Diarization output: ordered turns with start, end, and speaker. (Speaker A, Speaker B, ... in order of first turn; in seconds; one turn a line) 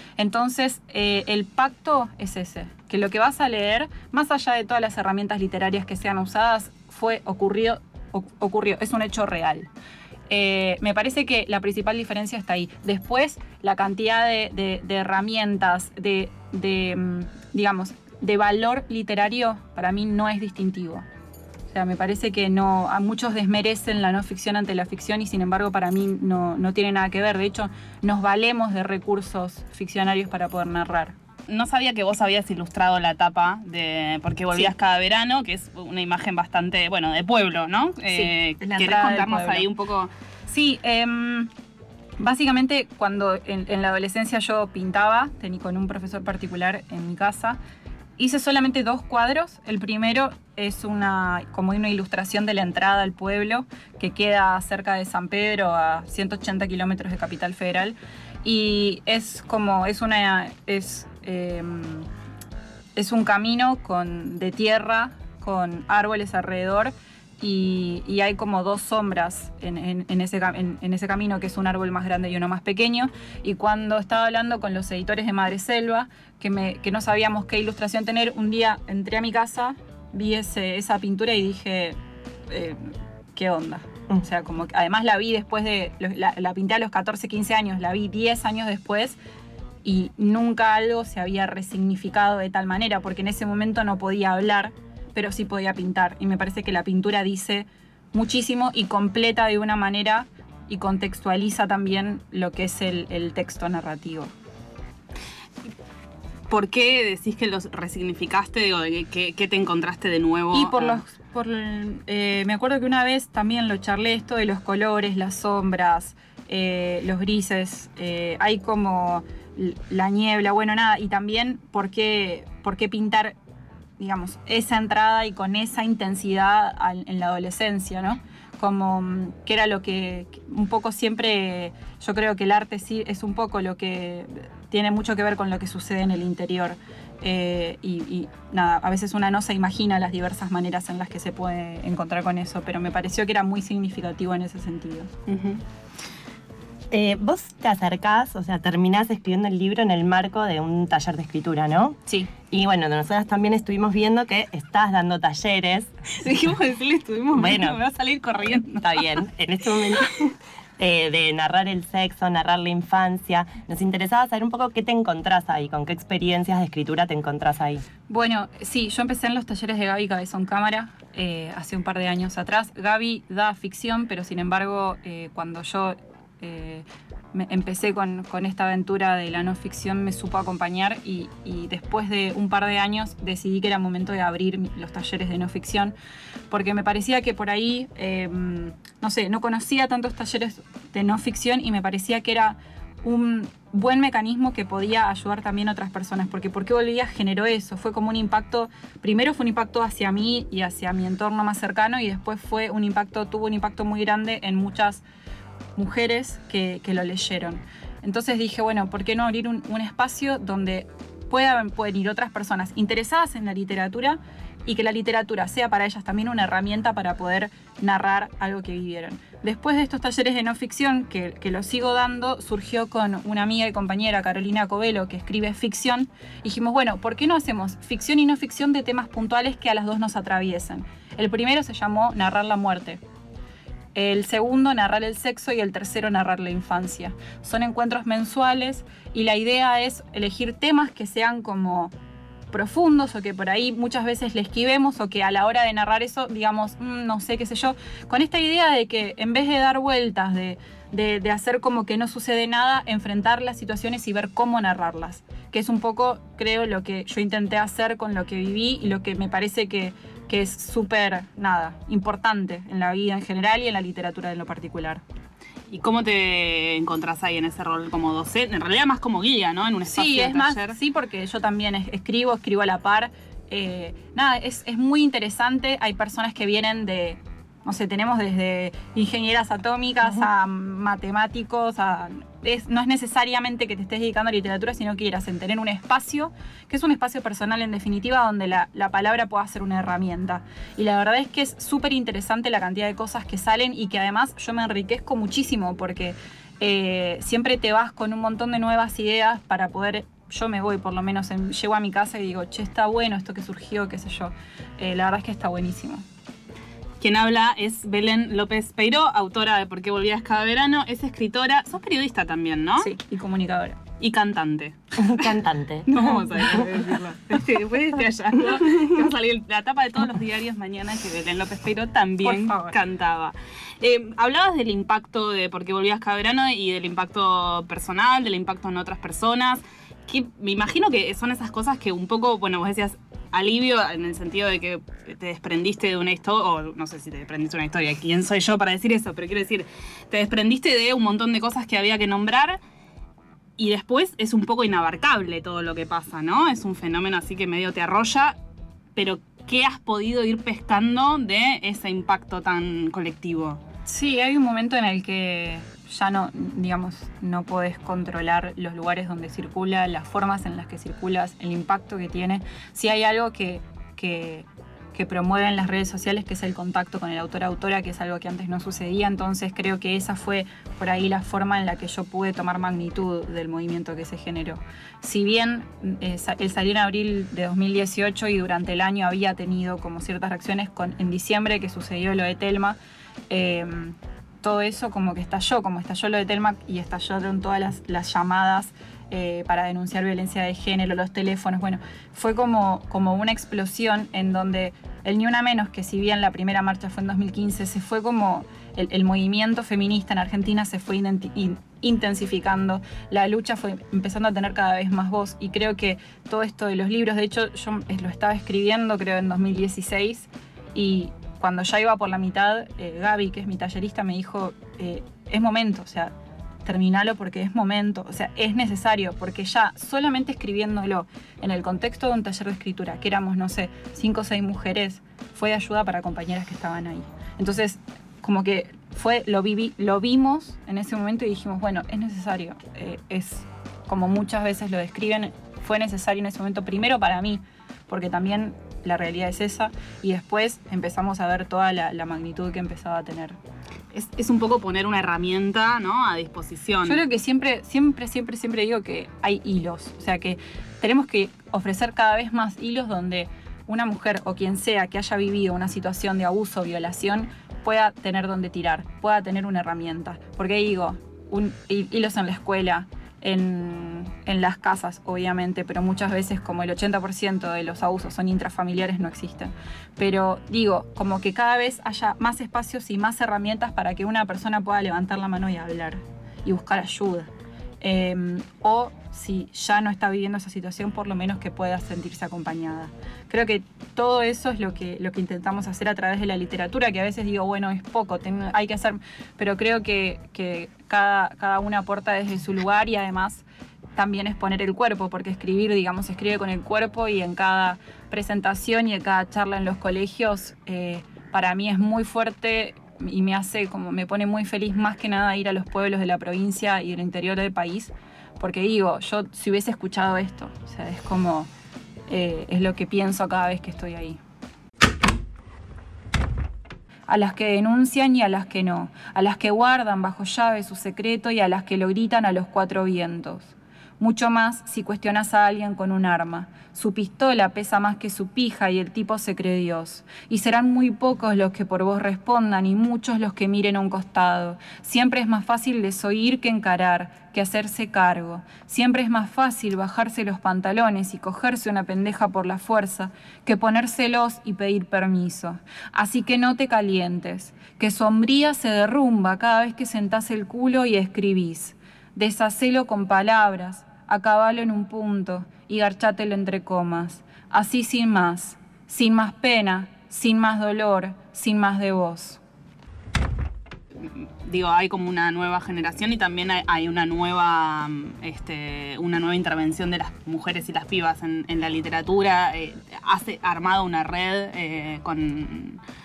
Speaker A: 0.2-9.7
Speaker A: 10.3-21.1
Speaker A: 21.7-31.1
Speaker B: 31.5-40.1
Speaker A: 38.1-39.7
Speaker A: 40.5-41.5
Speaker A: 42.2-47.6
Speaker A: 48.2-62.1
Speaker A: 63.0-82.0
Speaker A: 82.5-89.2
Speaker A: 89.8-104.3
Speaker B: 106.5-111.0
Speaker A: 110.5-123.4
Speaker A: 124.0-145.1
Speaker B: 145.3-145.6
Speaker C: 146.9-152.0
Speaker C: 152.5-155.9
Speaker B: 156.1-159.1
Speaker C: 157.3-157.8
Speaker C: 158.8-167.8
Speaker B: 159.8-160.1
Speaker A: 168.1-185.9
Speaker A: 186.5-205.1
Speaker A: 205.8-233.0
Speaker A: 233.9-241.9
Speaker A: 242.5-265.0
Speaker B: 265.7-270.7
Speaker A: 269.9-306.1
Speaker B: 307.0-312.9
Speaker A: 312.8-313.8
Speaker B: 314.0-315.3
Speaker C: 315.0-315.9
Speaker B: 315.9-342.6
Speaker A: 315.9-316.6
Speaker A: 322.2-322.8
Speaker B: 343.6-348.4
Speaker B: 348.9-353.6
Speaker A: 353.9-382.8
Speaker A: 383.3-416.1
Speaker A: 416.6-443.4
Speaker B: 443.9-447.0
Speaker A: 446.8-477.3
Speaker A: 477.8-511.5
Speaker A: 512.1-514.2
Speaker A: 517.1-562.4
Speaker B: 564.0-575.8